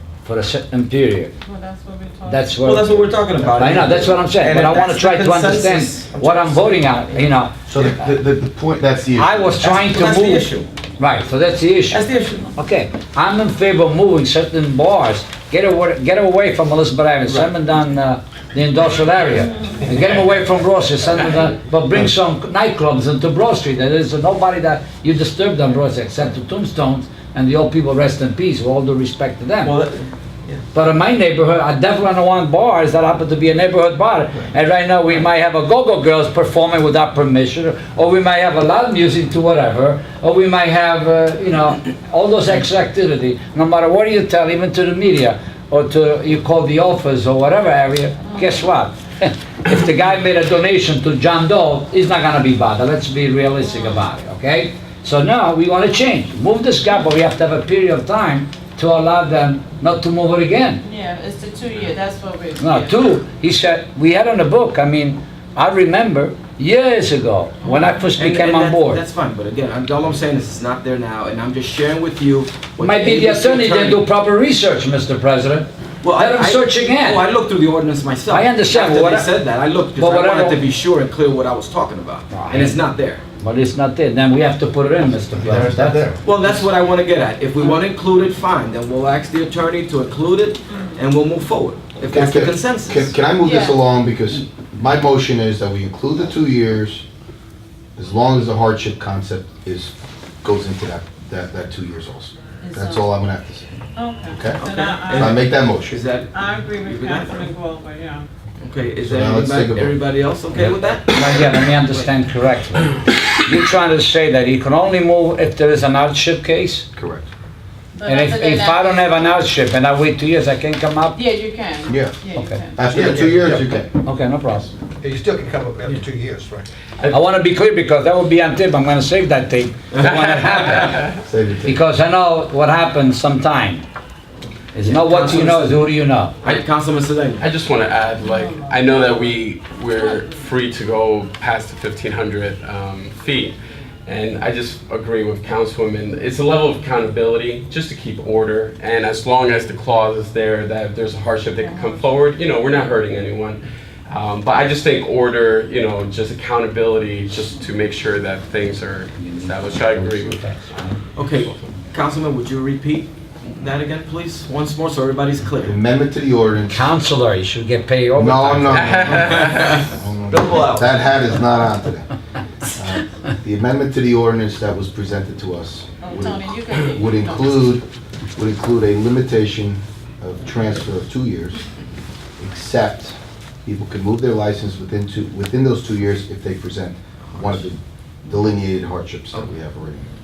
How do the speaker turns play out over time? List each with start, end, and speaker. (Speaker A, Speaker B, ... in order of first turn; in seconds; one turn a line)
Speaker A: 0.2-1.3
Speaker B: 1.4-2.6
Speaker A: 2.3-3.0
Speaker C: 2.6-7.3
Speaker D: 3.4-3.9
Speaker A: 3.6-7.5
Speaker D: 7.7-9.5
Speaker A: 9.2-12.0
Speaker C: 9.6-10.7
Speaker C: 11.9-12.5
Speaker A: 12.5-29.7
Speaker C: 17.3-17.5
Speaker C: 29.6-30.6
Speaker A: 30.7-60.8
Speaker B: 48.2-48.6
Speaker B: 53.6-54.0
Speaker B: 60.8-63.0
Speaker A: 62.6-69.0
Speaker B: 67.6-68.1
Speaker C: 68.1-74.0
Speaker A: 72.8-77.3
Speaker C: 76.0-83.2
Speaker A: 78.3-79.3
Speaker A: 80.0-80.6
Speaker A: 82.3-82.8
Speaker A: 83.4-86.0
Speaker D: 85.3-86.2
Speaker C: 85.4-93.3
Speaker B: 90.7-91.0
Speaker D: 92.1-97.0
Speaker B: 93.4-93.8
Speaker D: 98.0-106.0
Speaker B: 102.6-103.1
Speaker B: 104.0-105.4
Speaker C: 104.6-105.3
Speaker C: 105.8-107.5
Speaker B: 106.3-108.3
Speaker C: 108.6-112.1
Speaker D: 109.0-110.0
Speaker A: 111.1-112.9
Speaker A: 113.4-116.8
Speaker D: 116.9-117.3
Speaker B: 117.9-119.2
Speaker A: 118.1-121.2
Speaker B: 121.1-122.8
Speaker D: 121.9-122.2
Speaker D: 122.7-123.9
Speaker E: 122.9-123.7
Speaker C: 123.0-123.5
Speaker A: 124.0-124.7
Speaker E: 125.0-126.6
Speaker C: 125.2-127.2
Speaker A: 127.1-131.0
Speaker D: 131.1-131.8
Speaker A: 131.6-133.8
Speaker A: 134.7-136.3
Speaker C: 134.8-135.9
Speaker C: 136.4-137.4
Speaker F: 137.4-160.4
Speaker B: 138.2-139.3
Speaker B: 139.9-140.4
Speaker B: 151.6-152.1
Speaker A: 159.3-161.0
Speaker C: 161.2-165.8
Speaker D: 165.6-166.9
Speaker A: 166.7-169.3
Speaker D: 168.2-172.1
Speaker F: 168.7-169.8
Speaker C: 169.4-171.1
Speaker D: 172.7-181.6
Speaker B: 176.0-177.8
Speaker D: 182.4-190.1